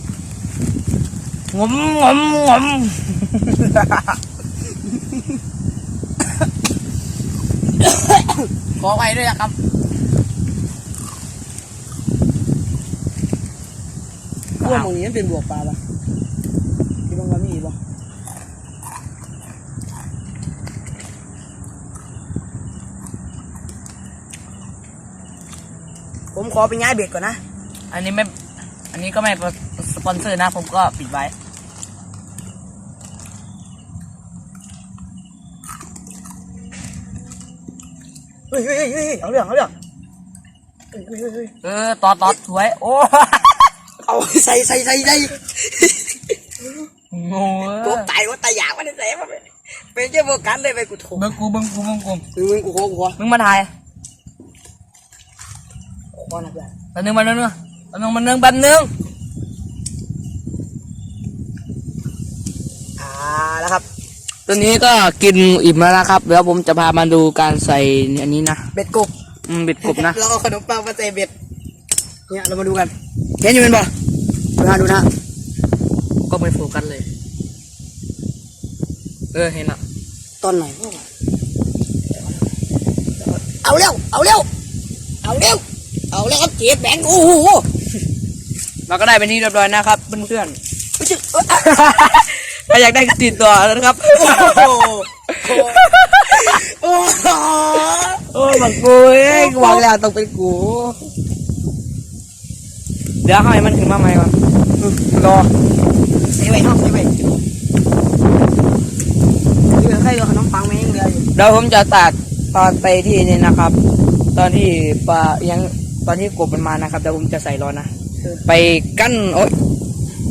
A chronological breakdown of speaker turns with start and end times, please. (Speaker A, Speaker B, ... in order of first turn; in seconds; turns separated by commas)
Speaker A: 1.5-4.2, Speaker A: 7.8-8.4, Speaker B: 8.8-9.5, Speaker B: 14.6-14.9, Speaker A: 14.6-15.8, Speaker A: 17.1-17.8, Speaker A: 26.3-27.4, Speaker B: 27.9-28.3, Speaker B: 28.9-31.3, Speaker A: 38.5-39.7, Speaker A: 40.9-41.5, Speaker B: 41.6-43.7, Speaker A: 44.0-46.2, Speaker B: 47.1-48.1, Speaker A: 47.7-51.3, Speaker B: 51.1-52.2, Speaker A: 52.3-53.2, Speaker B: 53.2-53.7, Speaker A: 56.1-56.7, Speaker B: 56.9-58.9, Speaker A: 63.0-63.8, Speaker B: 64.5-68.6, Speaker A: 68.7-69.1, Speaker B: 69.5-70.2, Speaker A: 69.8-71.3, Speaker A: 72.3-73.9, Speaker A: 74.6-75.1, Speaker B: 76.3-77.1, Speaker B: 79.3-79.8, Speaker A: 80.4-81.0, Speaker A: 83.3-84.5, Speaker A: 85.2-87.6, Speaker B: 86.1-87.4, Speaker B: 88.9-90.6, Speaker A: 91.0-91.7, Speaker B: 91.5-96.6, Speaker A: 94.1-98.8, Speaker B: 98.2-101.0, Speaker A: 99.3-99.8, Speaker B: 103.2-104.3, Speaker A: 104.8-105.5, Speaker A: 106.3-107.1, Speaker A: 109.7-111.3, Speaker B: 111.3-113.8, Speaker B: 114.3-117.9, Speaker B: 118.4-119.5